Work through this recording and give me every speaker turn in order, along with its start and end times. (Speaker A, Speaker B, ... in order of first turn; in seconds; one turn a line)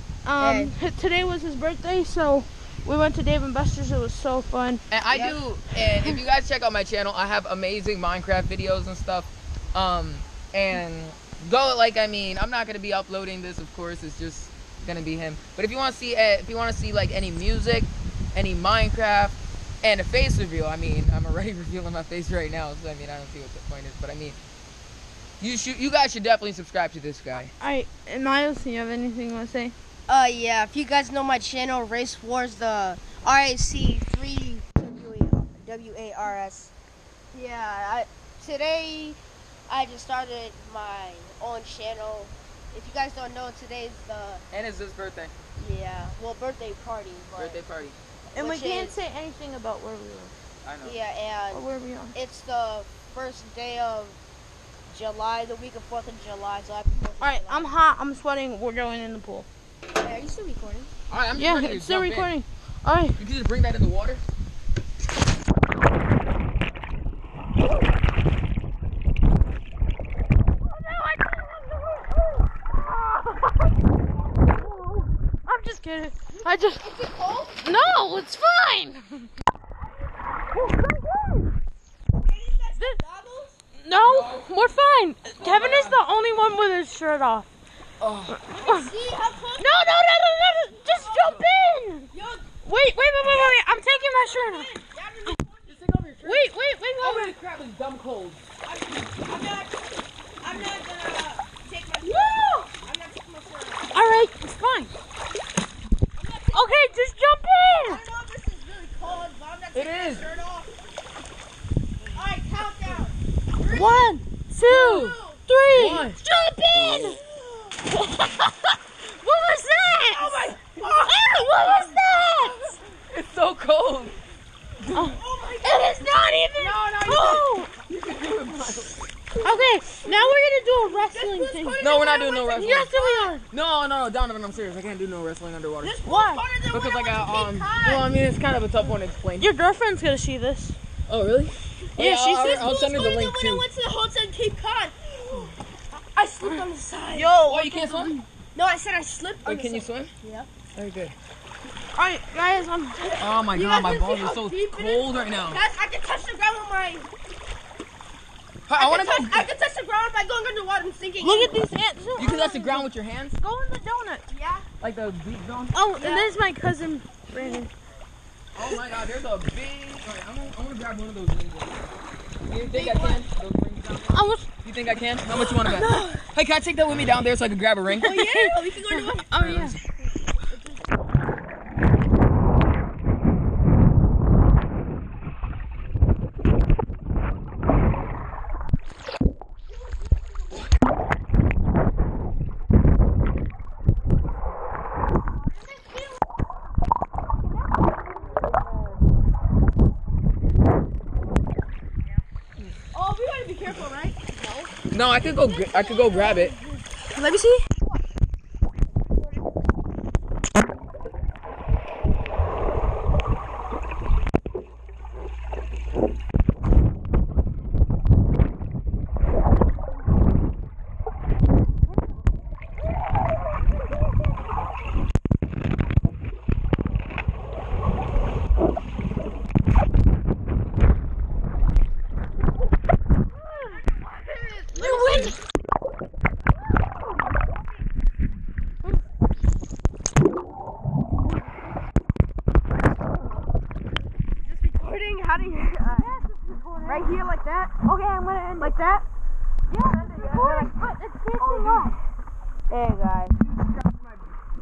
Speaker A: 0.3-4.8
Speaker B: 0.4-0.7
Speaker C: 4.9-24.4
Speaker B: 5.1-5.4
Speaker C: 25.4-27.5
Speaker A: 27.6-29.7
Speaker B: 30.1-36.7
Speaker B: 37.3-44.4
Speaker C: 44.5-45.3
Speaker B: 45.6-47.6
Speaker C: 47.4-48.0
Speaker B: 48.3-49.0
Speaker A: 48.4-50.3
Speaker C: 50.6-51.0
Speaker B: 50.8-54.2
Speaker A: 51.5-52.2
Speaker B: 54.9-57.8
Speaker A: 57.2-59.5
Speaker B: 60.0-60.9
Speaker C: 61.1-62.3
Speaker A: 61.4-63.2
Speaker C: 63.2-64.2
Speaker A: 70.7-73.5
Speaker A: 75.4-76.9
Speaker B: 76.3-77.6
Speaker A: 77.6-79.3
Speaker A: 80.5-81.5
Speaker B: 82.2-83.6
Speaker A: 83.8-87.5
Speaker C: 83.9-84.7
Speaker C: 85.4-86.0
Speaker C: 88.0-88.4
Speaker A: 88.4-88.9
Speaker B: 88.5-89.7
Speaker A: 89.6-92.1
Speaker B: 90.9-91.3
Speaker B: 92.1-92.5
Speaker A: 92.6-94.7
Speaker B: 93.2-95.8
Speaker C: 95.7-96.5
Speaker A: 96.2-97.2
Speaker B: 97.0-97.3
Speaker C: 97.0-98.4
Speaker B: 98.6-104.1
Speaker A: 102.1-102.7
Speaker A: 103.9-104.9
Speaker B: 106.2-106.8
Speaker A: 106.5-108.0
Speaker B: 107.8-110.8
Speaker C: 109.8-110.2
Speaker B: 112.1-113.9
Speaker A: 113.7-117.2
Speaker C: 114.6-115.2
Speaker B: 115.0-115.4
Speaker C: 115.7-116.2
Speaker B: 117.0-117.8
Speaker A: 117.9-122.6
Speaker B: 120.1-121.7
Speaker B: 122.4-122.8
Speaker C: 123.1-124.2
Speaker C: 124.8-125.1
Speaker A: 124.9-127.7
Speaker B: 125.1-126.0
Speaker B: 126.6-127.4
Speaker C: 126.8-129.1
Speaker A: 129.4-131.8
Speaker B: 130.9-133.4
Speaker C: 131.8-132.9
Speaker A: 132.5-133.4
Speaker C: 133.5-136.0
Speaker B: 135.8-138.2
Speaker A: 136.0-136.4
Speaker C: 136.7-139.5
Speaker A: 139.4-140.8
Speaker C: 141.1-143.7
Speaker A: 142.0-142.7
Speaker B: 142.6-147.3
Speaker A: 147.1-148.3
Speaker C: 147.5-148.1
Speaker B: 148.6-150.5
Speaker C: 149.4-150.1
Speaker C: 150.8-151.2
Speaker A: 151.9-153.2
Speaker B: 153.0-157.1
Speaker C: 153.2-155.6
Speaker A: 153.8-154.4
Speaker C: 158.7-159.5
Speaker B: 158.7-161.6
Speaker A: 161.2-162.9
Speaker C: 162.2-163.4
Speaker A: 163.4-164.2
Speaker B: 164.3-164.7
Speaker C: 164.8-165.8
Speaker A: 165.7-167.7
Speaker B: 166.0-166.4
Speaker C: 168.6-171.8
Speaker C: 172.5-178.2
Speaker B: 172.6-173.3
Speaker A: 174.1-174.5
Speaker A: 175.4-176.2
Speaker B: 177.9-179.3
Speaker A: 178.0-179.8
Speaker C: 179.3-179.8
Speaker B: 202.9-204.4
Speaker A: 204.4-204.7
Speaker C: 204.9-206.6
Speaker A: 205.8-206.8
Speaker B: 207.1-208.0
Speaker A: 233.5-233.8
Speaker B: 233.8-235.4
Speaker A: 234.7-235.4
Speaker B: 244.4-246.1
Speaker A: 245.9-247.2
Speaker B: 246.9-249.1
Speaker A: 247.9-248.7
Speaker A: 249.7-252.0
Speaker B: 250.0-250.7
Speaker C: 251.4-252.0
Speaker B: 252.7-253.4
Speaker C: 253.4-254.3